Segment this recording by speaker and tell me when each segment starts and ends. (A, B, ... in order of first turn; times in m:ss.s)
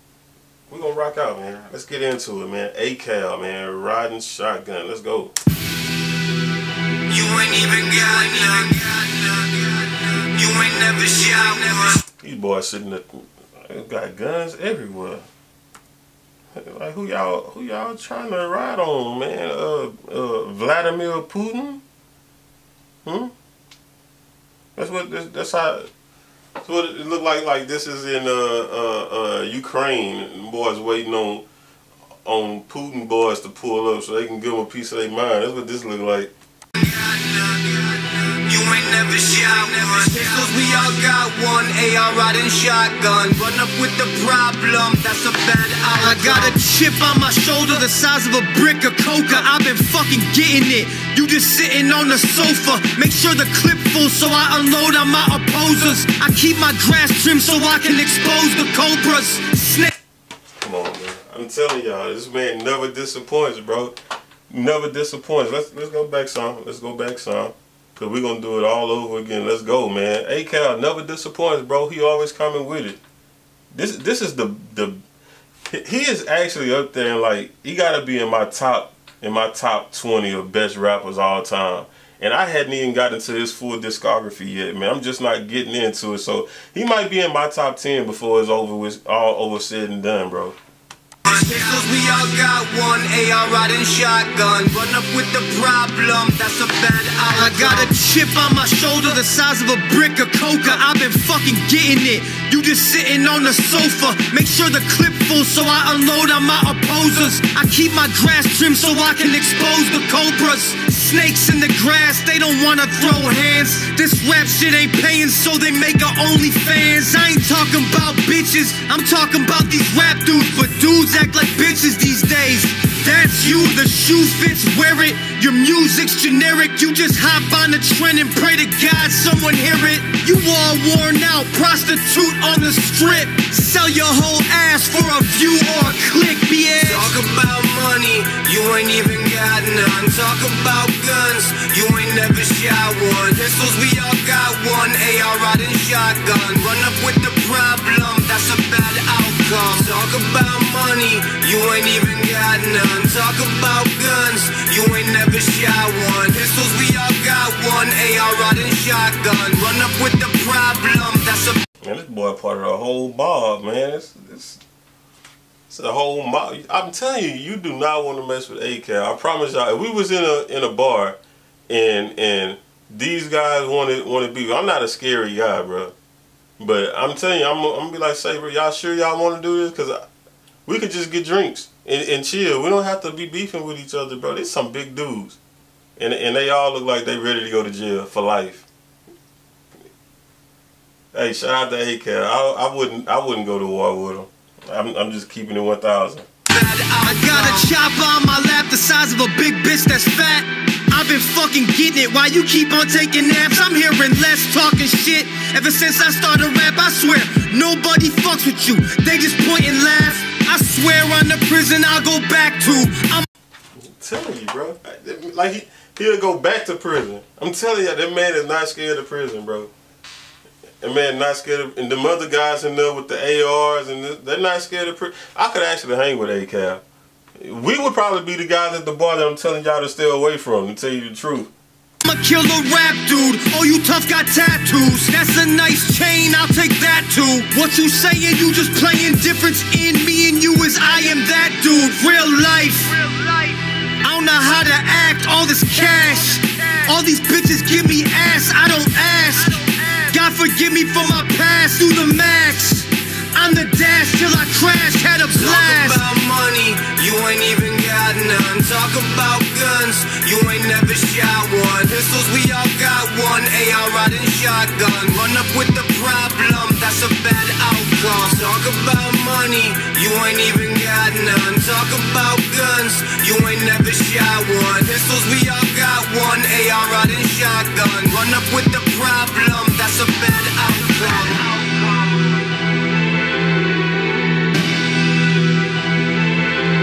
0:00.7-0:05.3 A
0:07.1-0:12.0 B
0:12.2-0:15.3 A
0:16.5-0:21.8 A
0:23.0-0:23.3 A
0:24.8-0:25.9 A
0:26.6-0:31.4 A
0:32.2-0:36.3 A
0:36.8-0:46.6 B
0:46.0-0:59.9 C
1:00.6-1:04.0 A
1:04.5-1:13.0 A
1:13.7-1:15.0 A
1:15.7-1:30.6 A
1:31.2-1:37.9 B
1:37.3-2:17.1 C
2:16.8-2:41.6 B
2:41.8-2:44.6 A
2:45.7-2:55.9 A
2:56.6-3:00.0 A
3:00.6-3:05.4 A
3:06.0-3:08.6 A
3:11.1-3:16.3 A
3:16.5-3:17.7 B
3:17.0-3:33.3 C
3:33.8-3:39.7 A
3:40.8-3:46.8 A
3:47.4-3:51.5 A
3:52.0-4:16.0 C
4:15.3-4:42.4 B